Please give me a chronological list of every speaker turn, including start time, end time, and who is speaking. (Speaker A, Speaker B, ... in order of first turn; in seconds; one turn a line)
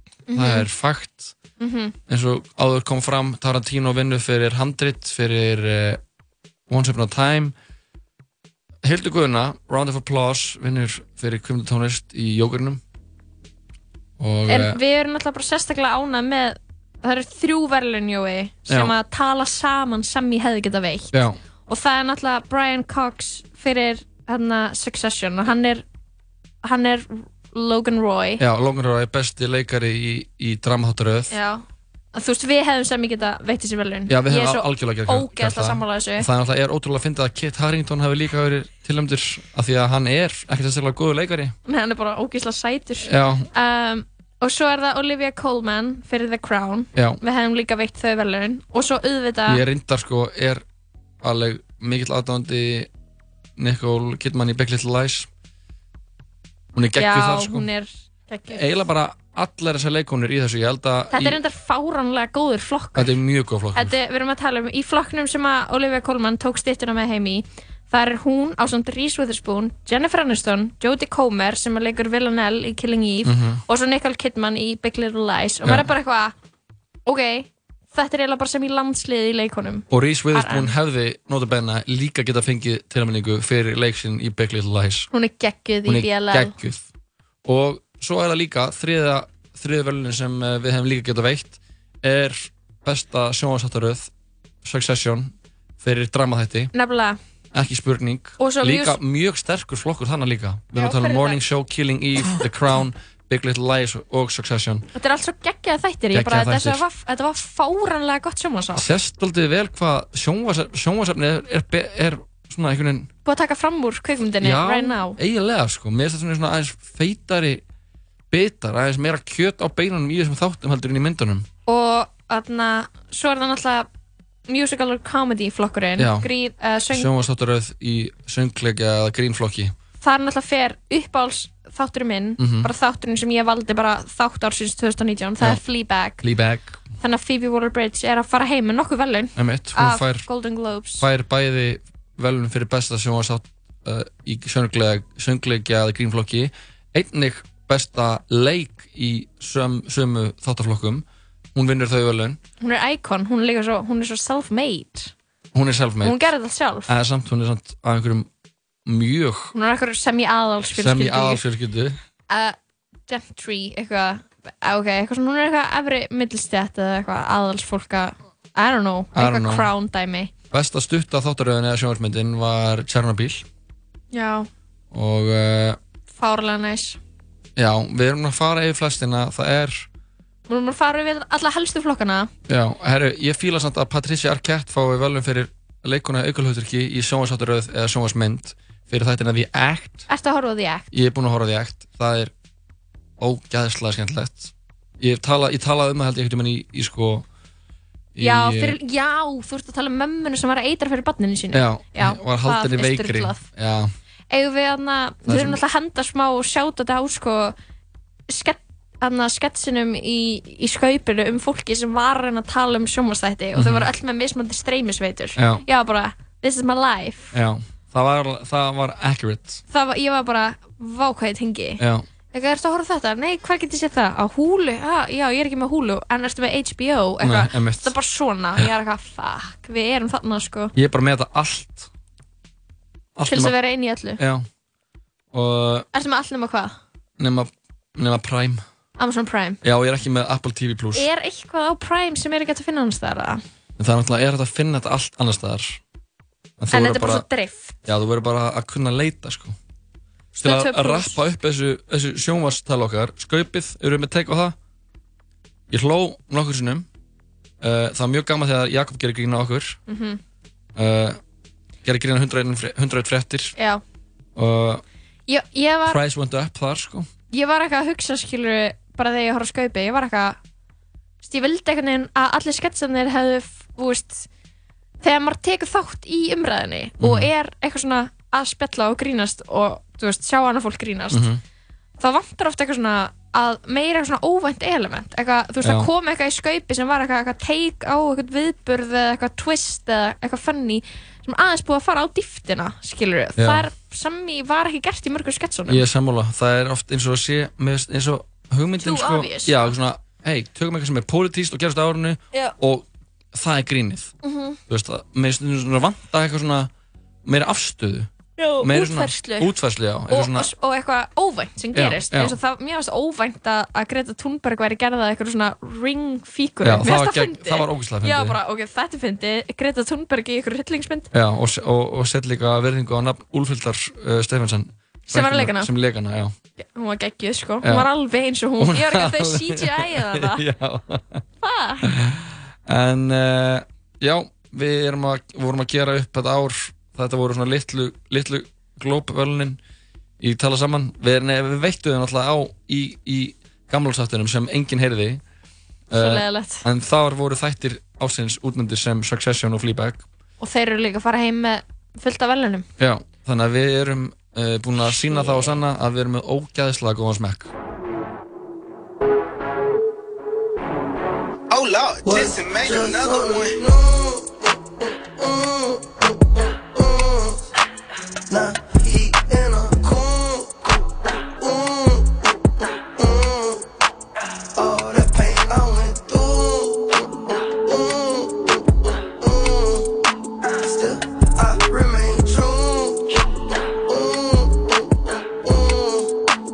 Speaker A: 0.3-0.7
Speaker B: 0.3-1.4
Speaker A: 1.6-1.9
Speaker B: 2.1-6.0
Speaker B: 6.7-7.5
Speaker B: 8.8-12.8
Speaker B: 14.2-14.8
Speaker A: 14.5-25.8
Speaker B: 18.7-18.9
Speaker B: 21.1-21.4
Speaker A: 26.6-28.4
Speaker B: 28.4-31.3
Speaker A: 31.3-36.3
Speaker B: 34.1-41.5
Speaker A: 41.7-49.6
Speaker B: 43.0-43.5
Speaker B: 47.0-47.2
Speaker B: 49.5-50.6
Speaker B: 51.2-52.9
Speaker B: 53.6-55.3
Speaker B: 56.7-57.7
Speaker A: 57.0-58.9
Speaker B: 58.5-61.4
Speaker A: 61.1-63.1
Speaker B: 63.0-64.0
Speaker A: 63.8-76.3
Speaker B: 73.2-73.6
Speaker B: 75.6-75.9
Speaker A: 77.1-80.7
Speaker B: 79.9-85.1
Speaker A: 85.1-86.5
Speaker B: 85.9-86.9
Speaker B: 87.5-94.1
Speaker B: 94.6-96.7
Speaker A: 96.7-97.2
Speaker B: 97.5-104.9
Speaker A: 98.4-99.0
Speaker A: 100.7-101.4
Speaker A: 105.0-108.9
Speaker B: 106.1-106.8
Speaker B: 108.7-113.1
Speaker A: 113.2-115.2
Speaker B: 114.4-117.6
Speaker B: 118.3-121.5
Speaker A: 121.7-123.9
Speaker A: 124.5-127.1
Speaker B: 126.0-126.3
Speaker B: 126.9-129.7
Speaker A: 130.0-136.2
Speaker B: 132.4-132.7
Speaker B: 136.2-136.8
Speaker A: 137.0-141.1
Speaker B: 139.4-140.3
Speaker B: 141.0-152.4
Speaker A: 152.6-155.1
Speaker B: 155.5-156.2
Speaker A: 156.0-156.9
Speaker B: 156.9-158.3
Speaker B: 158.9-159.5
Speaker A: 159.5-161.4
Speaker B: 160.7-162.0
Speaker A: 162.3-162.6
Speaker A: 163.1-170.3
Speaker B: 169.2-169.7
Speaker B: 170.5-173.5
Speaker A: 174.1-174.5
Speaker B: 174.9-175.8
Speaker A: 176.2-177.0
Speaker B: 177.6-179.9
Speaker A: 180.5-182.3
Speaker B: 182.5-190.1
Speaker A: 190.1-190.9
Speaker B: 190.9-192.3
Speaker B: 193.2-197.3
Speaker B: 198.2-198.8
Speaker A: 198.2-203.4
Speaker B: 201.5-203.9
Speaker A: 204.3-207.6
Speaker B: 205.2-205.6
Speaker A: 208.3-217.3
Speaker B: 213.6-213.9
Speaker B: 215.4-215.6
Speaker B: 217.3-219.6
Speaker A: 219.7-221.8
Speaker B: 221.8-222.1
Speaker A: 222.3-230.7
Speaker B: 227.2-227.9
Speaker B: 230.8-231.9
Speaker B: 233.2-233.6
Speaker A: 233.3-234.2
Speaker B: 234.2-234.5
Speaker B: 235.3-235.9
Speaker A: 235.9-236.8
Speaker B: 237.2-238.6
Speaker A: 239.0-239.6
Speaker B: 239.6-241.1
Speaker A: 240.9-243.4
Speaker B: 243.8-245.8
Speaker B: 246.6-247.2
Speaker A: 246.7-247.8
Speaker B: 247.8-249.6
Speaker A: 250.4-251.2
Speaker B: 250.4-254.6
Speaker B: 255.7-256.9
Speaker B: 257.6-259.8
Speaker A: 259.9-260.2
Speaker B: 260.8-261.2
Speaker B: 261.8-263.5
Speaker A: 263.6-263.8
Speaker B: 264.4-264.8
Speaker A: 265.3-266.0
Speaker B: 265.9-267.1
Speaker A: 267.3-270.4
Speaker A: 271.2-274.3
Speaker A: 275.0-281.2
Speaker B: 277.0-277.3
Speaker B: 281.1-281.4
Speaker A: 282.0-295.8
Speaker B: 285.6-285.9
Speaker B: 293.4-293.7
Speaker B: 295.7-304.1
Speaker A: 298.8-299.7
Speaker A: 304.2-304.6
Speaker B: 304.7-306.7
Speaker B: 307.2-308.1
Speaker A: 308.4-309.5
Speaker B: 308.6-310.5
Speaker A: 310.1-321.1
Speaker B: 311.8-312.4
Speaker B: 316.6-318.4
Speaker B: 321.1-326.3
Speaker A: 325.1-325.7
Speaker A: 326.6-330.4
Speaker B: 328.6-331.2
Speaker A: 331.4-331.9
Speaker B: 331.8-339.6
Speaker B: 340.2-345.2
Speaker B: 345.9-350.1
Speaker A: 345.9-346.6
Speaker A: 350.4-352.7
Speaker B: 352.8-357.5
Speaker A: 354.9-355.6
Speaker C: 361.5-363.5
Speaker D: 362.0-364.5
Speaker D: 365.2-367.4
Speaker D: 368.3-370.7
Speaker D: 371.4-372.1
Speaker D: 373.0-373.6
Speaker D: 374.6-378.6
Speaker D: 379.2-379.9
Speaker D: 380.4-383.2
Speaker D: 383.9-386.1